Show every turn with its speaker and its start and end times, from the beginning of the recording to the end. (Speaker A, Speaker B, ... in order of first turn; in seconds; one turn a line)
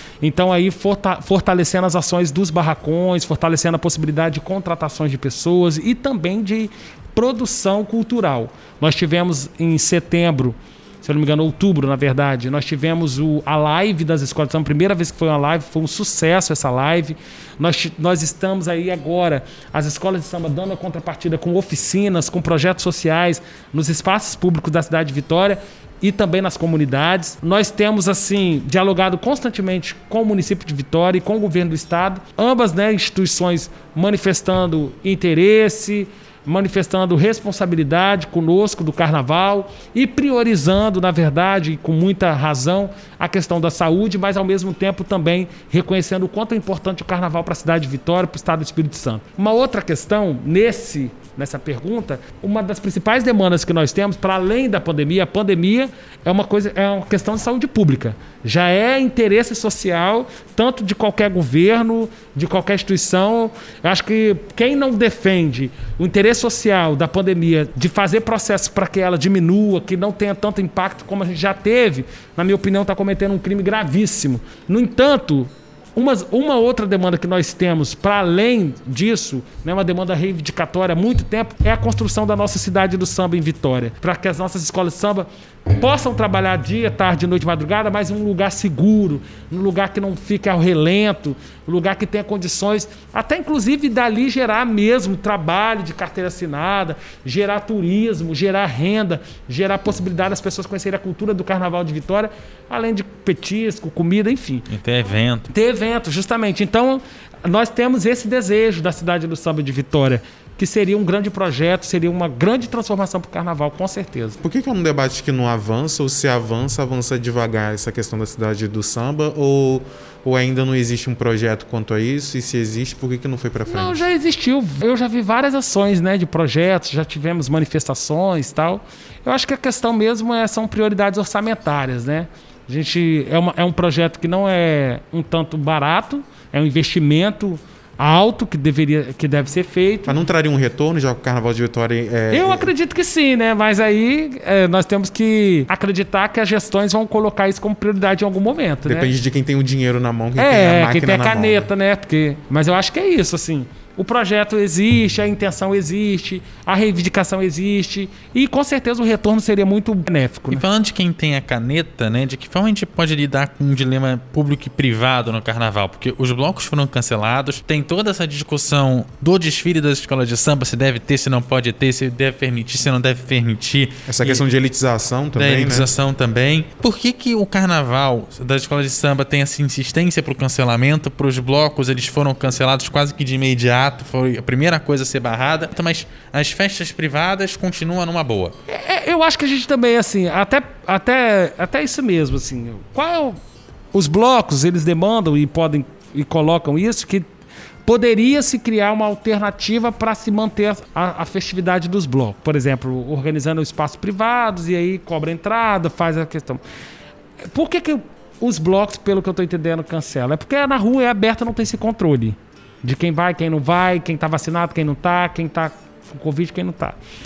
Speaker A: 0.2-104.7
Speaker B: 104.7-105.5
Speaker A: 105.5-114.4
Speaker C: 114.4-124.1
Speaker A: 123.7-140.2
Speaker C: 140.1-142.7
Speaker A: 142.3-149.1
Speaker C: 148.8-151.7
Speaker A: 150.4-160.6
Speaker B: 160.5-174.4
Speaker C: 174.1-175.9
Speaker B: 175.4-188.6
Speaker A: 188.7-193.4
Speaker A: 193.9-197.3
Speaker A: 197.8-206.6
Speaker A: 207.5-217.0